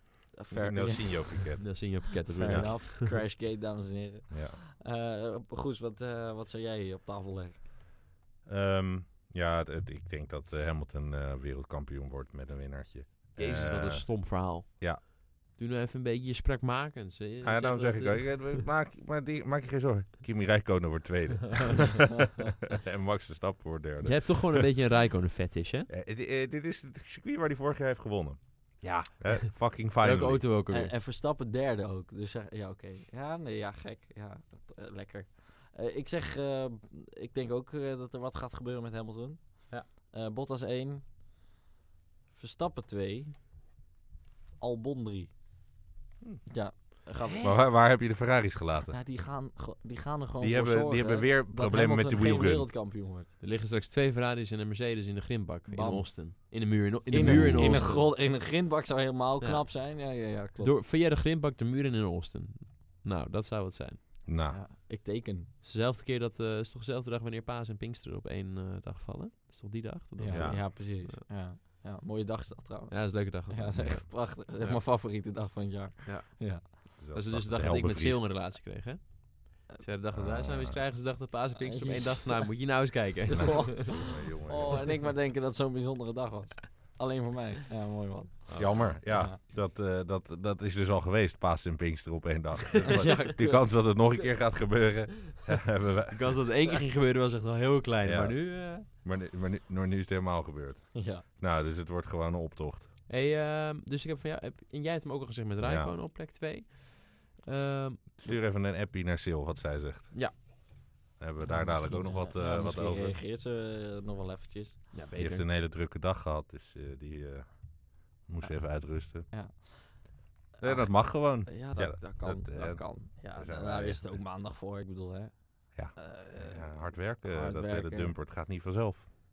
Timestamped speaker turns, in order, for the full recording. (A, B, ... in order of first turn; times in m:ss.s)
0:00.3-0:01.7 A
0:00.5-0:02.8 B
0:01.6-0:03.2 C
0:02.3-0:07.6 A
0:04.3-0:04.6 B
0:08.4-0:15.0 B
0:13.4-0:18.6 C
0:17.4-0:24.7 B
0:24.0-0:25.9 C
0:25.9-0:30.4 B
0:28.8-0:30.9 C
0:30.7-0:41.2 A
0:42.3-0:43.4 A
0:44.6-0:45.3 A
0:46.4-0:47.4 A
0:47.2-0:47.6 C
0:47.4-0:49.0 B
0:48.9-0:53.3 A
0:50.4-0:52.7 B
0:53.4-0:58.1 C
0:55.7-1:00.7 A
0:57.2-0:58.0 B
0:59.4-1:04.1 C
1:04.2-1:04.6 B
1:04.4-1:05.5 A
1:05.6-1:11.2 C
1:10.2-1:16.6 A
1:10.3-1:10.7 B
1:12.9-1:14.9 C
1:16.0-1:24.0 C
1:17.0-1:18.3 B
1:20.1-1:20.8 B
1:21.6-1:22.6 A
1:23.3-1:29.4 A
1:23.3-1:25.0 B
1:28.5-1:28.9 C
1:28.6-1:36.4 B
1:32.9-1:33.8 A
1:33.0-1:33.3 C
1:36.1-1:38.9 C
1:38.0-1:42.9 B
1:40.9-1:41.2 A
1:43.1-1:48.4 C
1:45.6-1:46.0 B
1:48.2-1:50.4 B
1:51.2-1:53.2 B
1:51.4-1:54.8 A
1:54.9-1:55.4 C
1:55.1-1:59.3 B
1:58.4-2:08.1 A
2:00.6-2:04.2 B
2:05.7-2:09.1 B